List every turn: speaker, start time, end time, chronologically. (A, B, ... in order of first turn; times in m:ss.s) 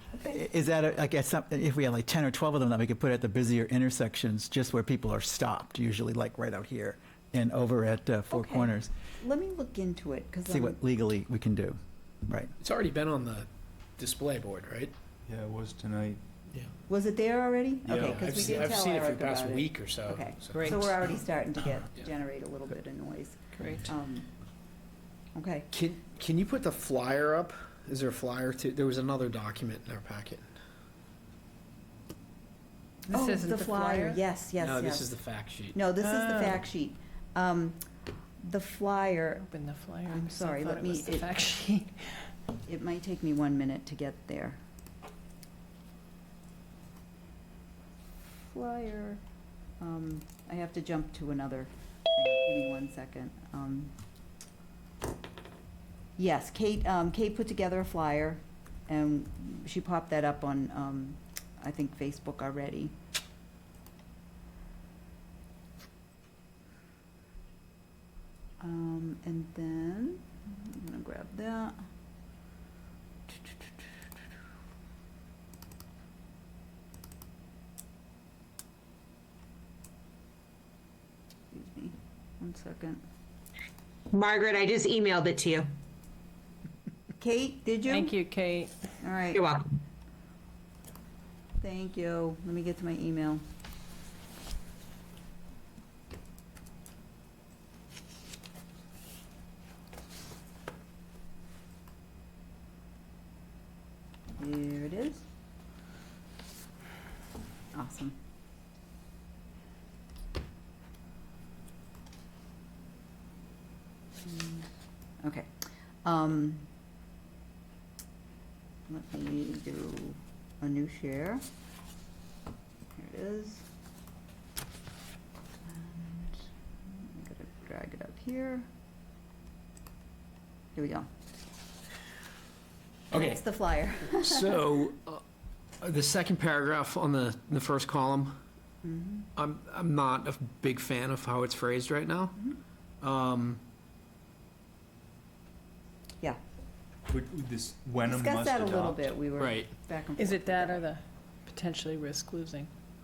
0:00.2-0:08.9 A
0:08.3-0:10.8 B
0:10.5-0:12.5 A
0:12.6-0:13.5 C
0:14.0-0:14.9 C
0:15.3-0:16.2 D
0:16.9-0:24.3 B
0:17.8-0:18.8 D
0:18.1-0:20.6 C
0:20.5-0:20.8 E
0:23.6-0:23.9 E
0:25.3-0:25.7 B
0:25.7-0:30.4 C
0:33.1-0:35.1 B
0:33.1-0:34.2 E
0:34.6-0:35.8 C
0:35.7-0:37.8 B
0:36.0-0:36.6 E
0:38.4-0:39.4 B
0:39.4-0:42.2 E
0:40.0-0:41.3 B
0:42.7-0:44.6 B
0:48.4-0:49.2 B
0:49.8-0:53.9 B
0:56.2-1:02.9 B
1:08.6-1:11.8 B
1:21.5-1:23.0 B
1:24.1-1:25.7 F
1:27.2-1:28.1 B
1:27.9-1:28.7 E
1:29.0-1:29.4 B
1:29.3-1:29.7 F
1:31.6-1:33.4 B
1:44.4-1:45.2 B
1:47.7-1:48.2 B
1:54.2-1:54.7 B
1:55.2-1:55.5 B
1:56.0-1:56.7 B
1:58.9-2:01.4 B
2:03.0-2:03.6 B
2:05.6-2:08.6 B
2:10.8-2:11.1 B
2:13.1-2:14.6 B
2:13.1-2:13.4 C
2:14.1-2:15.2 C
2:15.8-2:18.4 C
2:18.8-2:19.3 B
2:19.4-2:22.3 C
2:23.0-2:23.6 C
2:27.1-2:29.0 D
2:28.0-2:30.8 B
2:29.4-2:29.7 C
2:30.2-2:32.7 E